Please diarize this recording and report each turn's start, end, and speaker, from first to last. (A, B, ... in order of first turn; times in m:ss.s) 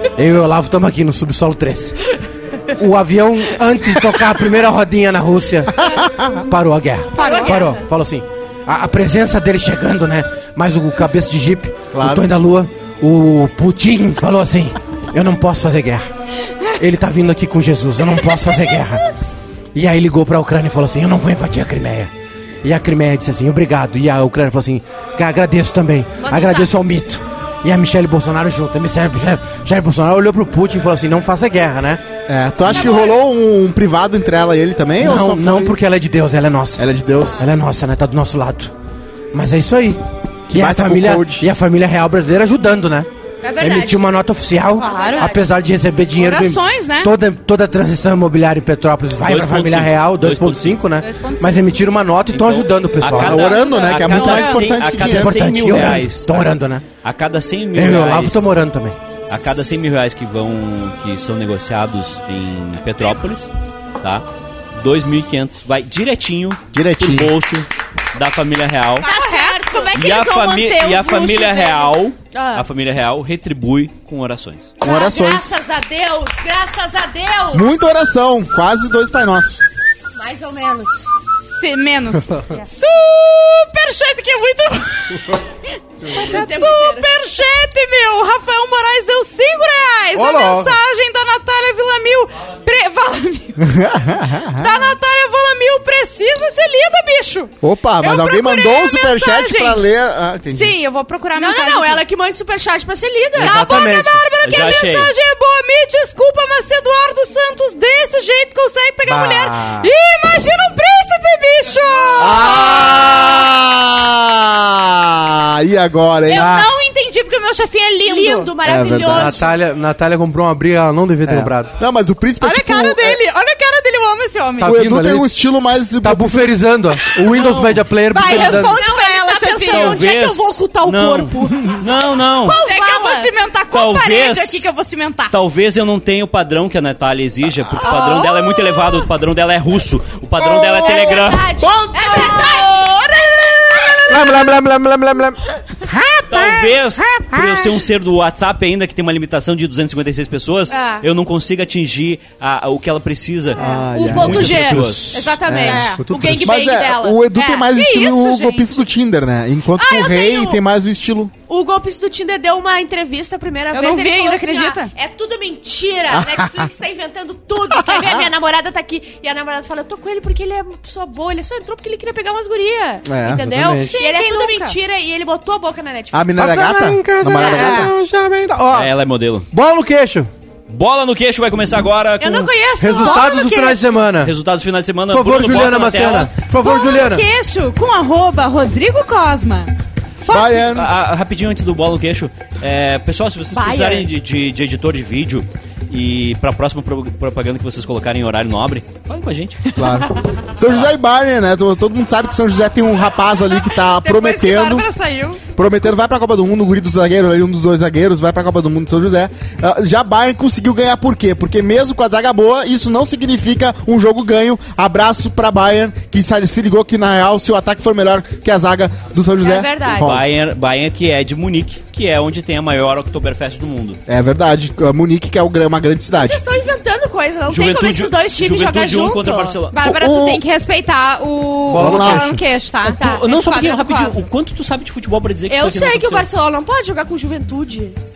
0:00.1-0:02.0 A
0:02.7-0:05.8 A
0:05.8-0:06.4 B
0:06.4-0:16.1 A
0:07.1-0:07.7 C
0:07.2-0:07.8 D
0:11.9-0:12.3 B
0:16.8-0:19.0 A
0:19.7-0:22.1 A
0:22.6-0:32.0 A
0:26.2-0:26.7 D
0:32.3-0:35.8 B
0:32.6-0:33.2 D
0:35.0-0:36.8 A
0:36.8-0:37.5 B
0:37.4-0:38.7 A
0:39.3-0:43.1 A
0:40.5-0:41.5 B
0:43.4-0:44.0 D
0:43.6-0:53.6 A
0:44.8-0:45.4 C
0:44.8-0:45.4 D
0:46.1-0:47.1 C
0:49.2-0:50.8 E
0:51.0-0:51.6 C
0:52.3-0:56.5 E
0:53.1-0:56.0 B
0:53.5-0:54.6 C
0:54.8-0:56.8 A
0:57.0-0:58.5 E
0:57.7-0:59.0 A
0:59.3-1:09.1 E
1:06.7-1:07.3 B
1:09.0-1:09.9 C
1:09.0-1:12.6 D
1:09.9-1:14.7 E
1:14.8-1:17.8 D
1:14.8-1:15.6 B
1:17.5-1:19.7 B
1:20.1-1:21.2 D
1:21.4-1:25.5 C
1:26.0-1:33.7 C
1:26.0-1:27.1 D
1:30.1-1:30.8 A
1:33.6-1:34.8 B
1:34.6-1:39.8 C
1:37.6-1:40.7 B
1:40.5-1:42.0 C
1:41.4-1:43.8 D
1:43.4-1:44.2 A
1:43.4-1:53.4 C
1:44.4-1:45.1 E
1:49.0-1:49.9 A
1:52.2-1:56.6 B
1:56.3-1:58.5 C
1:56.3-1:56.7 A
1:58.0-1:59.5 D
1:58.6-1:59.4 B
1:59.1-2:01.7 A
2:01.2-2:03.2 B
2:02.4-2:04.8 C
2:04.6-2:05.3 A
2:04.6-2:06.6 B
2:06.0-2:08.7 A
2:07.3-2:08.7 E
2:08.1-2:10.1 C
2:08.1-2:11.8 D
2:09.7-2:12.6 E
2:12.4-2:15.3 C
2:12.4-2:13.3 D
2:13.7-2:14.7 E
2:15.3-2:21.6 E
2:17.8-2:19.0 C
2:20.8-2:24.2 D
2:21.6-2:24.0 C
2:24.1-2:25.3 A
2:24.1-2:25.2 B
2:25.9-2:27.4 B
2:26.3-2:35.4 E
2:30.7-2:31.0 D
2:33.6-2:34.8 B
2:33.6-2:38.7 D
2:34.8-2:35.0 A
2:35.4-2:41.3 B
2:35.6-2:35.9 C
2:35.7-2:36.6 A
2:37.5-2:38.6 C
2:39.8-2:40.6 D
2:41.5-2:56.3 D
2:43.7-2:44.9 C
2:46.1-2:46.7 B
2:47.7-2:48.3 B
2:53.0-2:53.4 B
2:53.3-2:54.0 A
2:53.9-2:54.8 C
2:56.1-2:57.9 B
2:56.4-2:58.9 A
2:57.4-2:57.8 D
2:58.7-2:59.5 E
2:59.5-3:00.3 A
3:00.7-3:02.5 E
3:02.2-3:03.8 D
3:02.8-3:04.3 A
3:02.8-3:03.8 C
3:04.2-3:06.3 E
3:05.1-3:07.2 A
3:06.6-3:10.6 C
3:10.3-3:10.9 B
3:10.6-3:19.6 E
3:13.6-3:14.0 C
3:19.6-3:20.2 C
3:19.8-3:24.9 B
3:24.0-3:25.4 C
3:25.6-3:40.2 B
3:39.4-3:40.1 D
3:40.0-3:44.0 E
3:44.1-3:46.4 B
3:46.1-3:49.6 D
3:47.5-3:49.8 E
3:49.7-3:54.2 C
3:49.8-3:50.4 B
3:51.7-3:52.4 A
3:51.7-3:52.4 B
3:52.8-3:53.3 D
3:53.0-3:56.3 E
3:55.5-3:58.0 D